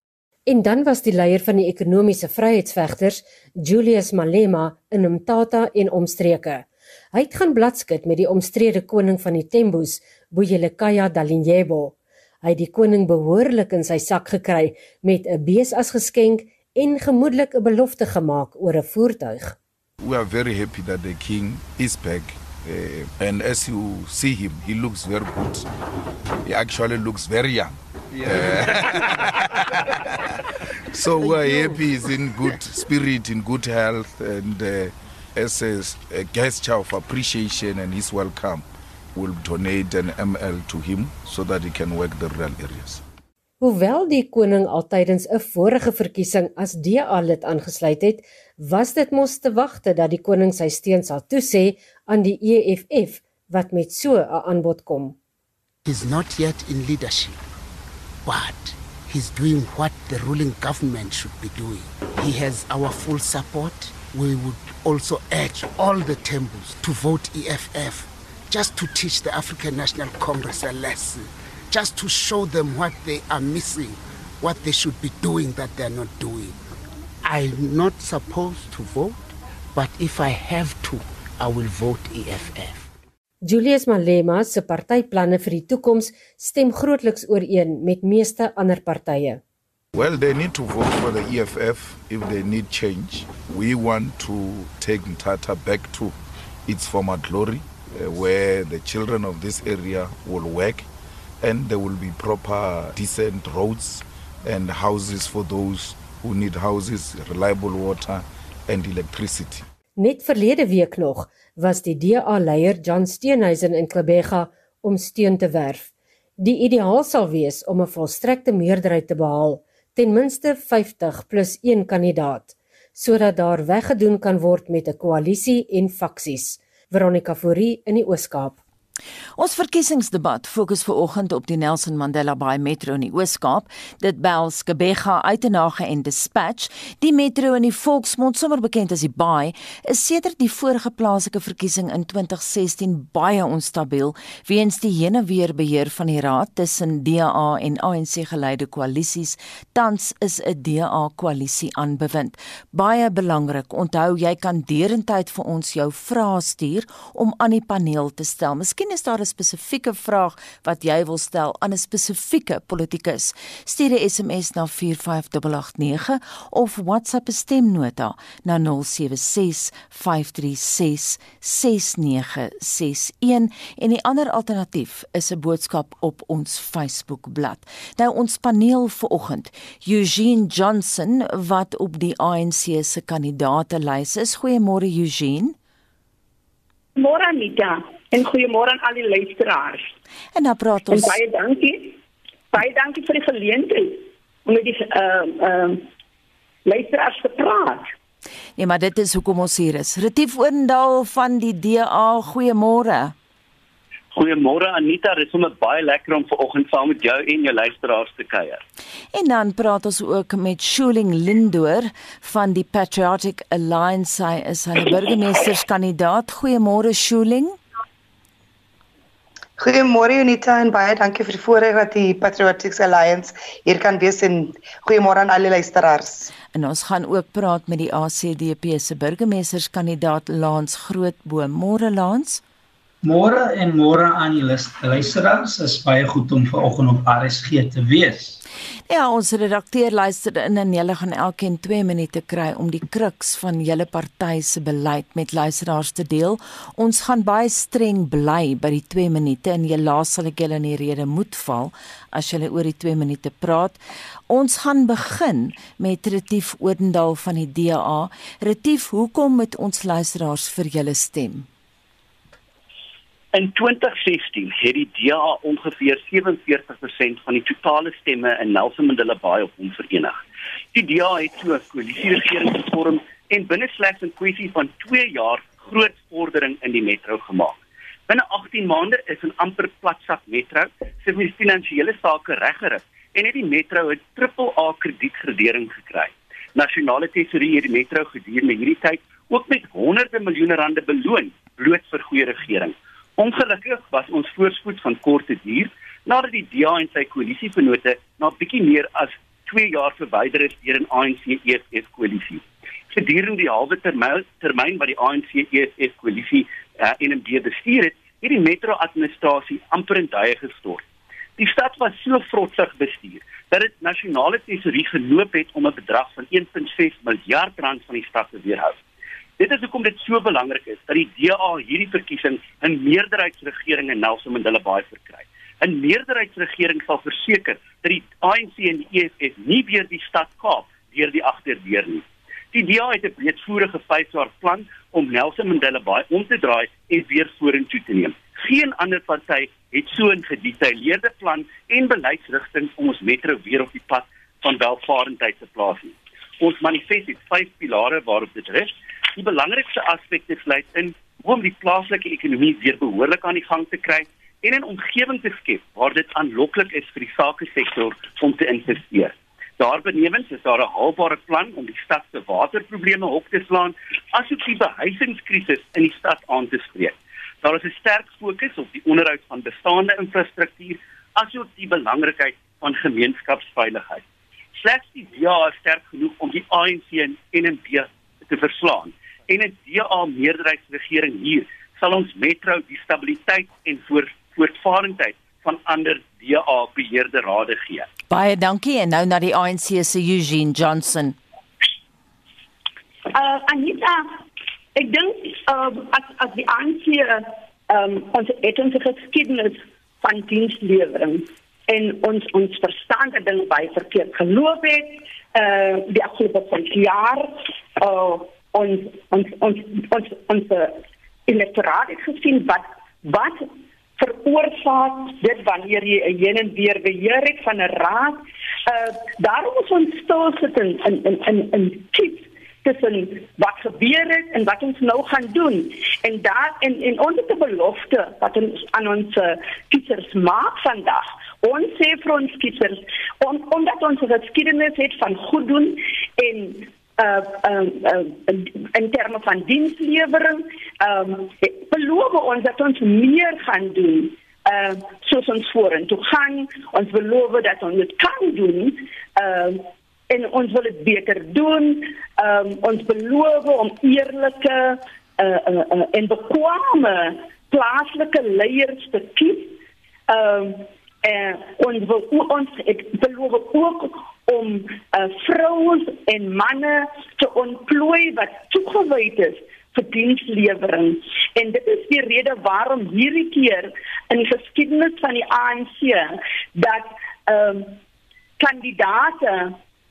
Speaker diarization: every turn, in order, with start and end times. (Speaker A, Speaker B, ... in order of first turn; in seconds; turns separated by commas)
Speaker A: 0.5-19.6, Speaker B: 20.0-25.7, Speaker B: 26.4-29.3, Speaker B: 30.9-43.0, Speaker C: 31.2-31.7, Speaker A: 43.6-55.1, Speaker C: 55.8-57.4, Speaker C: 58.2-76.5, Speaker C: 77.2-82.9, Speaker A: 83.4-89.4, Speaker B: 89.9-100.9, Speaker B: 101.4-109.6, Speaker A: 110.0-128.6, Speaker D: 129.4-185.5, Speaker E: 187.0-189.9, Speaker D: 190.3-191.2, Speaker E: 190.9-192.0, Speaker E: 192.5-195.9, Speaker E: 196.7-197.9, Speaker D: 198.6-203.1, Speaker F: 204.1-208.6, Speaker D: 209.1-217.6, Speaker G: 219.6-226.3, Speaker D: 226.5-232.4, Speaker H: 233.0-238.4, Speaker D: 238.9-261.4, Speaker F: 263.3-270.2, Speaker F: 270.7-310.9, Speaker F: 311.4-318.8, Speaker F: 319.4-374.0, Speaker F: 374.5-387.9, Speaker D: 388.1-391.2, Speaker E: 393.1-394.2, Speaker E: 394.7-477.8, Speaker E: 478.4-479.6